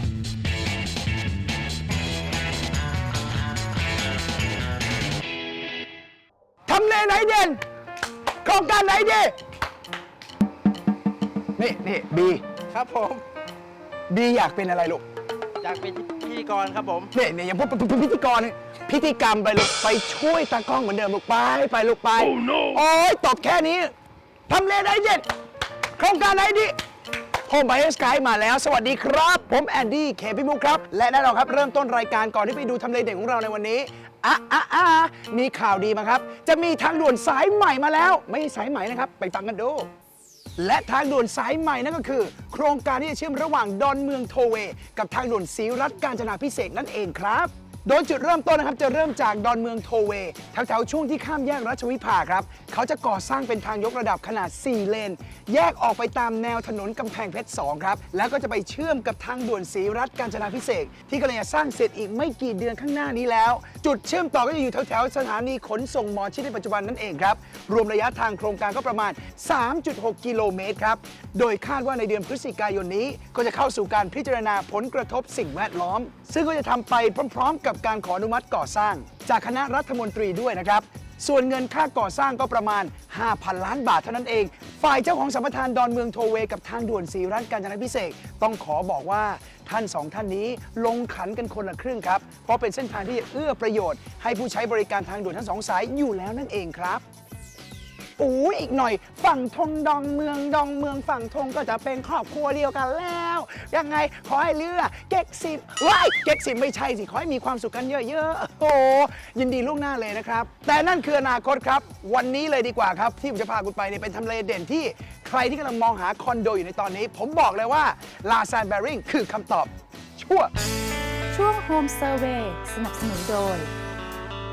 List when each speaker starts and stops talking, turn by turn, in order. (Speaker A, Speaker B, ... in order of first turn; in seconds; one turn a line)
Speaker A: 6.7-7.6
Speaker A: 8.4-9.3
Speaker A: 11.6-12.4
Speaker B: 12.7-13.2
Speaker A: 14.1-15.0
Speaker B: 15.6-17.1
Speaker A: 17.1-23.9
Speaker B: 22.3-22.8
Speaker A: 24.5-25.3
Speaker A: 25.9-26.8
Speaker A: 27.4-39.9
Speaker A: 40.6-97.0
Speaker A: 98.2-120.5
Speaker C: 121.3-123.7